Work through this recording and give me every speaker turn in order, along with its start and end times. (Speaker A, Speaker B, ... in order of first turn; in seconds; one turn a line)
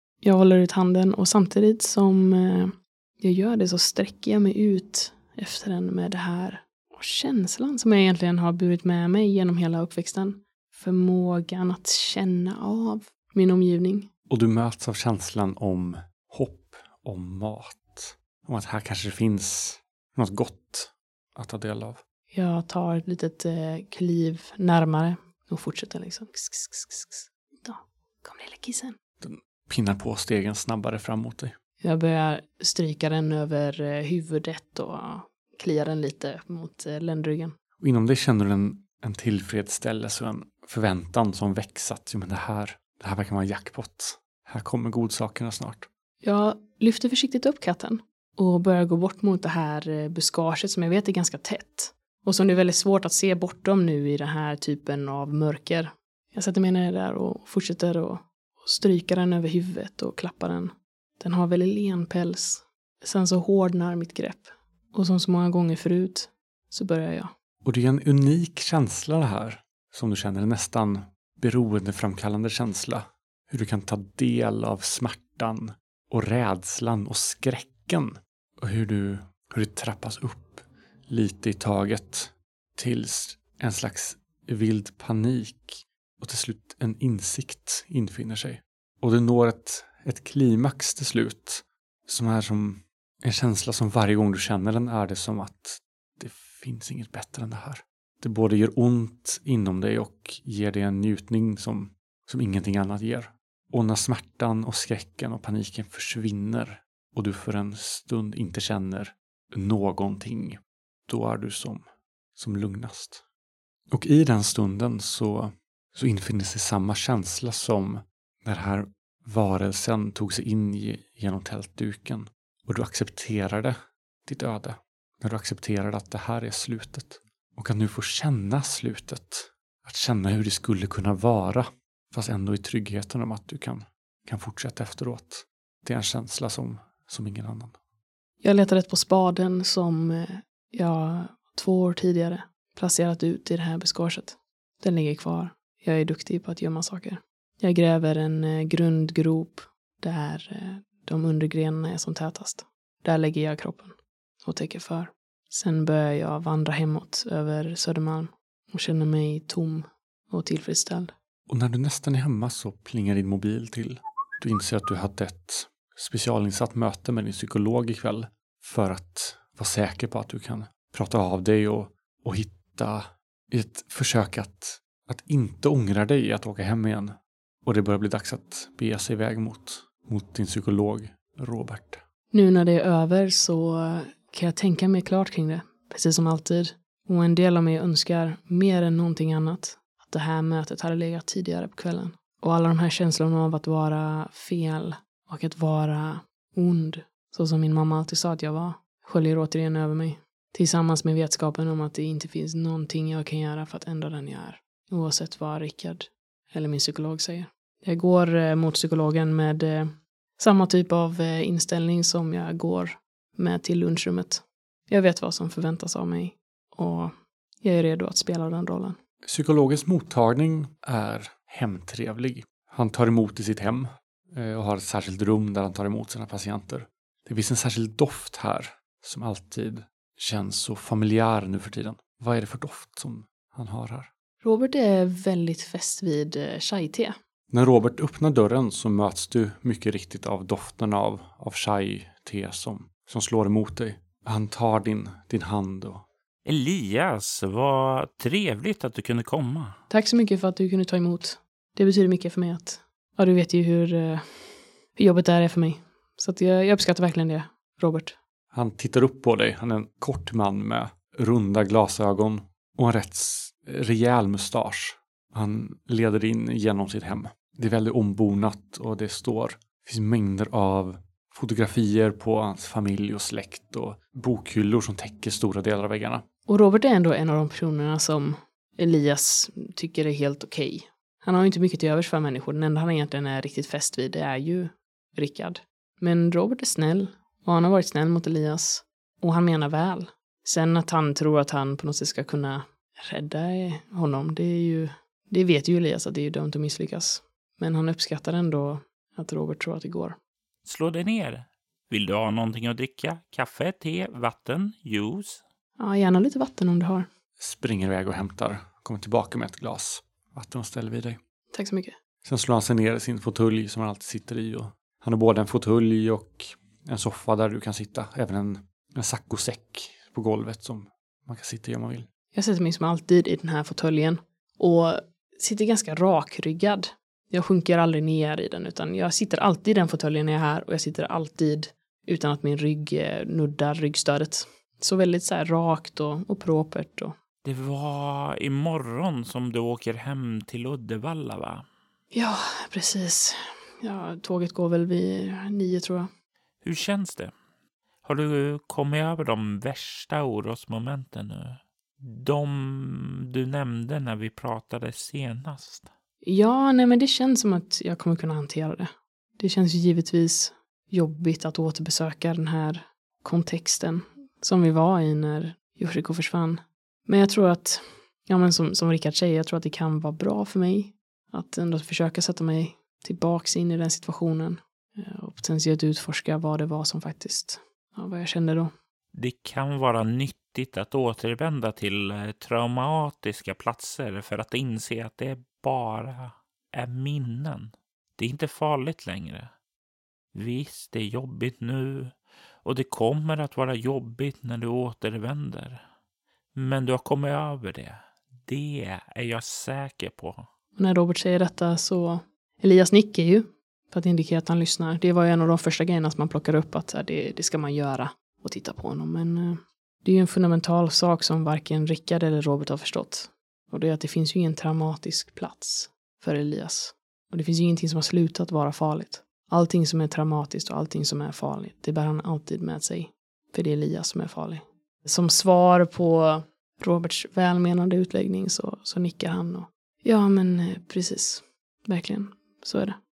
Speaker A: 0.2-14.1
Speaker B: 14.3-22.0
Speaker A: 22.3-29.0
Speaker B: 29.2-31.5
Speaker A: 31.8-37.5
Speaker B: 37.8-45.9
Speaker A: 46.2-67.3
Speaker B: 67.6-111.8
Speaker B: 112.3-113.2
Speaker B: 113.9-137.8
Speaker A: 138.4-161.1
Speaker B: 161.5-182.0
Speaker A: 182.3-219.0
Speaker B: 219.2-234.1
Speaker A: 234.4-237.2
Speaker B: 237.5-246.0
Speaker C: 246.4-249.8
Speaker A: 249.9-258.1
Speaker B: 258.5-276.2
Speaker A: 276.5-300.2
Speaker C: 300.6-305.4
Speaker A: 305.8-307.1
Speaker B: 307.4-311.2
Speaker A: 311.5-311.9
Speaker B: 312.2-322.1
Speaker A: 322.3-337.1
Speaker C: 337.4-341.6
Speaker A: 342.1-346.1
Speaker C: 346.6-347.3
Speaker C: 348.0-355.9
Speaker A: 356.2-378.7
Speaker C: 379.1-389.5
Speaker C: 390.3-395.8
Speaker C: 396.5-400.5
Speaker A: 400.8-433.0